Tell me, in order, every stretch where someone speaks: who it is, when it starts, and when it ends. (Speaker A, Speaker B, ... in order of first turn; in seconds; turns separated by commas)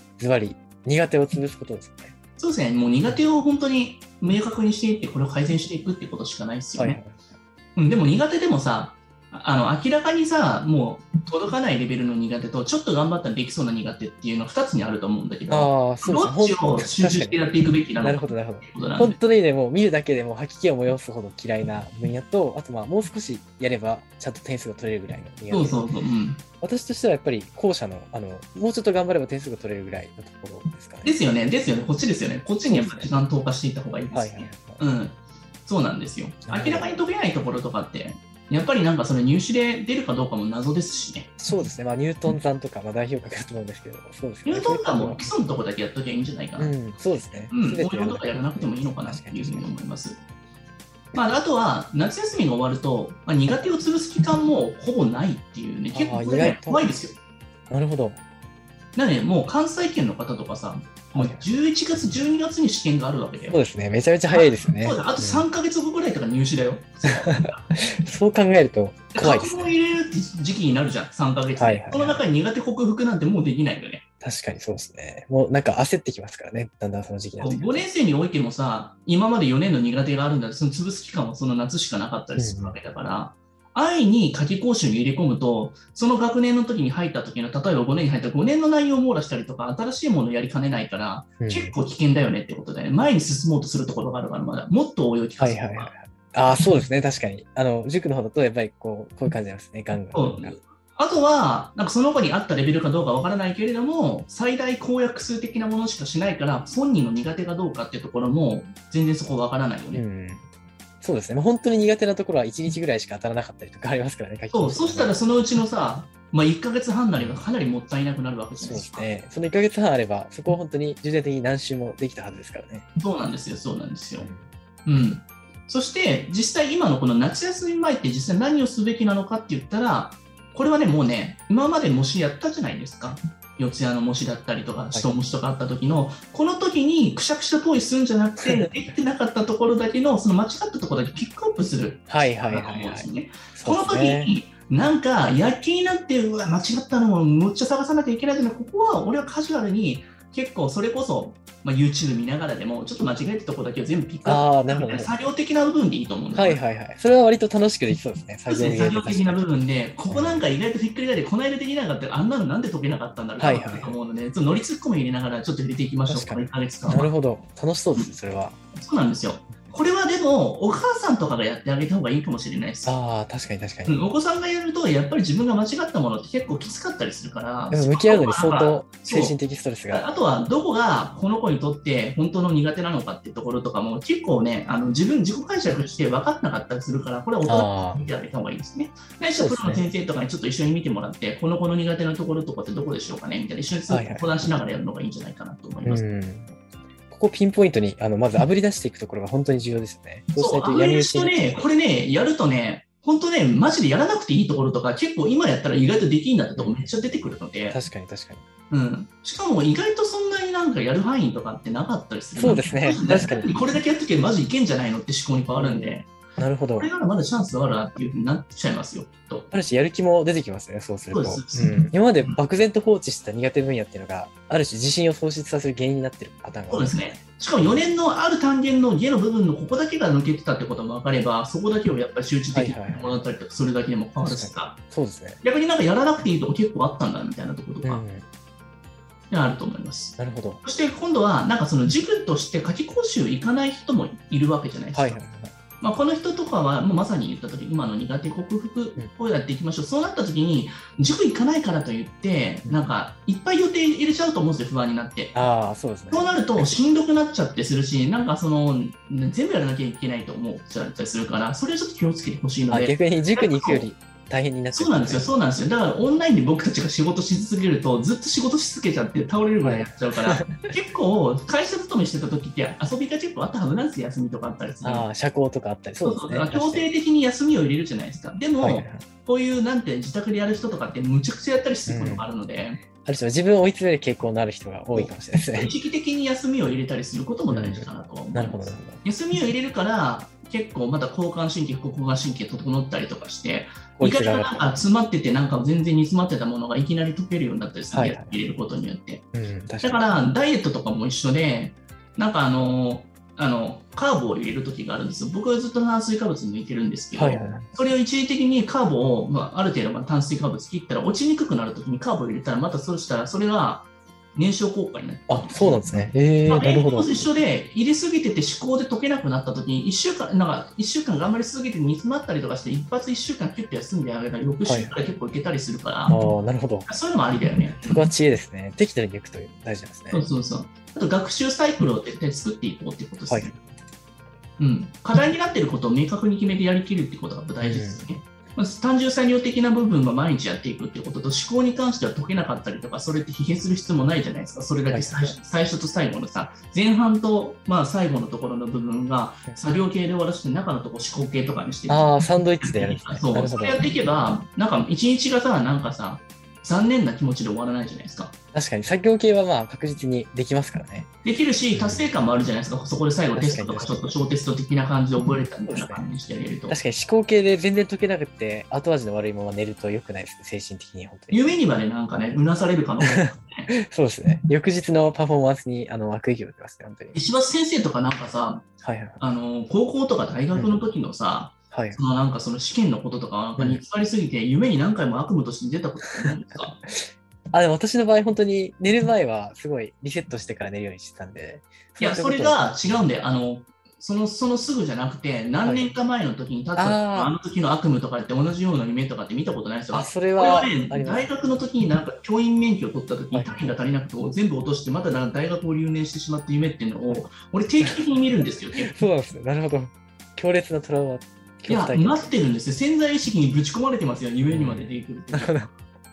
Speaker A: 0.2-2.1, Speaker B: 2.4-7.0, Speaker A: 6.8-7.2, Speaker B: 7.8-19.2, Speaker A: 15.5-17.5, Speaker A: 18.0-25.9, Speaker B: 25.5-26.4, Speaker A: 26.6-31.1, Speaker B: 31.0-41.3, Speaker A: 32.7-33.1, Speaker A: 34.1-34.8, Speaker A: 36.5-36.9, Speaker A: 41.4-45.3, Speaker B: 44.5-46.8, Speaker A: 46.6-49.8, Speaker B: 47.5-50.2, Speaker B: 51.1-57.2, Speaker A: 55.9-56.9, Speaker A: 57.7-58.2, Speaker B: 59.0-63.6, Speaker A: 61.1-61.5, Speaker A: 63.5-65.5, Speaker B: 64.3-67.6, Speaker A: 67.1-69.7, Speaker B: 69.1-74.0, Speaker A: 71.6-72.2, Speaker A: 74.2-77.8, Speaker B: 77.4-95.9, Speaker A: 82.4-82.8, Speaker A: 91.4-91.8, Speaker A: 95.4-100.5, Speaker B: 100.1-110.0, Speaker A: 109.9-110.5, Speaker A: 111.0-115.2, Speaker B: 114.5-119.1, Speaker A: 117.2-117.4, Speaker A: 118.6-122.9, Speaker B: 123.0-124.3, Speaker A: 124.2-124.5, Speaker B: 124.9-156.6, Speaker A: 142.1-144.3, Speaker A: 154.2-155.2, Speaker A: 156.3-159.5, Speaker B: 158.5-167.1, Speaker A: 160.1-160.4, Speaker A: 163.4-164.0, Speaker A: 166.1-168.6, Speaker B: 168.7-172.9, Speaker A: 172.8-174.0, Speaker B: 173.9-179.3, Speaker A: 177.7-180.1, Speaker B: 179.9-196.0, Speaker A: 187.5-188.1, Speaker A: 189.4-189.9, Speaker A: 193.9-194.3, Speaker A: 195.8-196.6, Speaker A: 197.1-201.7, Speaker B: 200.4-207.8, Speaker A: 206.6-206.9, Speaker A: 207.7-208.4, Speaker B: 208.7-216.1, Speaker A: 212.4-213.5, Speaker A: 215.5-216.9, Speaker B: 216.8-219.5, Speaker A: 219.5-227.8, Speaker B: 221.1-222.4, Speaker B: 226.7-234.8, Speaker A: 232.5-233.2, Speaker A: 234.2-235.4, Speaker B: 235.4-238.0, Speaker A: 237.8-238.2, Speaker B: 239.3-245.2, Speaker A: 240.2-240.6, Speaker A: 244.9-245.5, Speaker B: 245.8-255.3, Speaker A: 252.7-252.9, Speaker A: 255.3-256.8, Speaker B: 256.1-263.9, Speaker A: 262.7-265.3, Speaker B: 264.7-275.1, Speaker A: 269.6-270.7, Speaker A: 274.8-276.9, Speaker B: 276.0-282.8, Speaker A: 278.6-279.1, Speaker A: 281.9-282.3, Speaker A: 283.0-285.7, Speaker B: 284.9-299.3, Speaker A: 287.5-289.0, Speaker A: 294.0-294.7, Speaker A: 297.9-298.4, Speaker A: 299.3-300.1, Speaker B: 299.8-326.2, Speaker A: 307.1-307.7, Speaker A: 315.3-317.3, Speaker A: 324.6-325.0, Speaker A: 326.1-326.9, Speaker B: 326.9-328.0, Speaker A: 327.8-330.3, Speaker B: 330.1-333.6, Speaker A: 333.3-333.6, Speaker B: 334.6-352.1, Speaker A: 337.6-338.1, Speaker A: 344.9-345.4, Speaker A: 351.9-353.9, Speaker B: 352.6-358.4, Speaker A: 358.5-361.1, Speaker B: 361.2-366.8, Speaker A: 361.7-362.1, Speaker A: 363.4-364.2, Speaker A: 365.7-366.1, Speaker A: 366.7-371.5, Speaker B: 371.3-373.7, Speaker A: 373.0-377.2, Speaker B: 377.1-378.7, Speaker A: 378.8-379.2, Speaker B: 379.2-386.8, Speaker A: 380.5-380.8, Speaker A: 381.7-382.0, Speaker A: 386.9-392.7, Speaker B: 392.0-408.9, Speaker A: 395.6-395.9, Speaker A: 396.8-397.3, Speaker A: 399.9-401.3, Speaker A: 403.3-403.8, Speaker A: 407.8-408.1, Speaker A: 408.9-412.3, Speaker B: 411.7-415.7, Speaker A: 414.5-415.7